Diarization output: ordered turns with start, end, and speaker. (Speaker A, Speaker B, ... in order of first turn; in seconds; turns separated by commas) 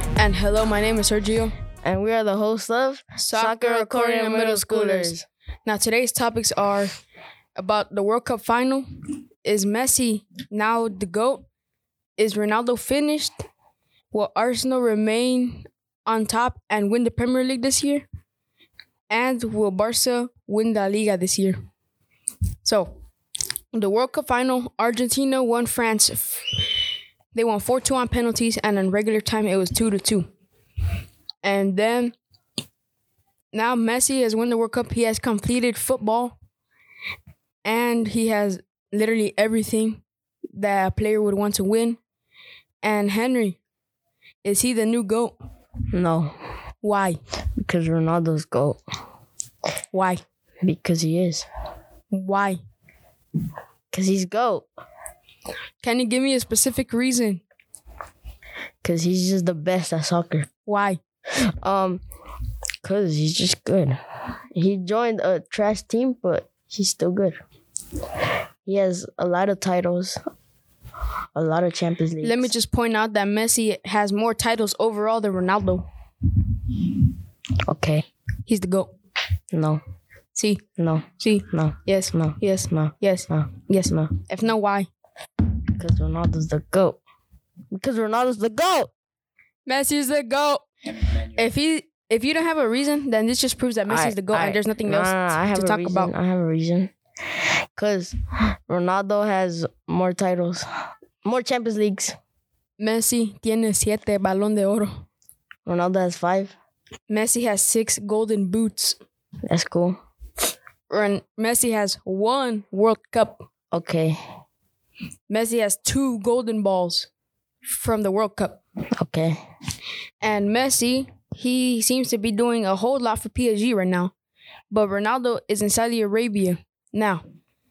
Speaker A: 0.1-1.5, Speaker B: 1.8-5.2, Speaker A: 3.1-5.2, Speaker A: 5.7-6.9, Speaker A: 7.5-8.8, Speaker A: 9.4-11.4, Speaker A: 12.2-13.4, Speaker A: 14.1-18.0, Speaker A: 19.1-21.6, Speaker A: 22.6-22.9, Speaker A: 23.7-26.4, Speaker A: 27.3-30.2, Speaker A: 31.4-32.1, Speaker A: 33.5-36.3, Speaker A: 37.6-40.0, Speaker A: 40.5-42.0, Speaker A: 42.8-43.6, Speaker A: 44.4-45.3, Speaker B: 45.9-46.3, Speaker A: 46.8-47.2, Speaker B: 47.6-48.8, Speaker A: 49.9-50.2, Speaker B: 50.6-51.5, Speaker A: 52.1-52.6, Speaker B: 53.9-54.6, Speaker A: 55.8-57.4, Speaker B: 58.8-60.5, Speaker A: 60.6-61.0, Speaker B: 61.6-62.0, Speaker B: 62.8-64.0, Speaker B: 64.5-67.4, Speaker B: 68.6-70.2, Speaker B: 71.3-72.5, Speaker A: 72.2-75.8, Speaker B: 77.7-78.0, Speaker A: 78.5-78.9, Speaker B: 79.5-79.8, Speaker A: 80.3-80.6, Speaker B: 80.8-84.1, Speaker A: 81.2-84.9, Speaker B: 85.7-87.0, Speaker B: 87.7-88.9, Speaker A: 89.7-90.6, Speaker A: 91.2-96.1, Speaker B: 93.9-96.9, Speaker B: 97.7-98.2, Speaker B: 98.7-100.6, Speaker B: 101.2-102.2, Speaker A: 102.8-104.9, Speaker B: 105.7-106.5, Speaker A: 107.1-109.0, Speaker B: 109.5-110.0, Speaker A: 110.9-113.4, Speaker B: 113.7-114.2, Speaker A: 115.3-117.1, Speaker A: 117.7-118.6, Speaker B: 119.0-119.4, Speaker A: 120.2-124.1, Speaker A: 124.7-127.2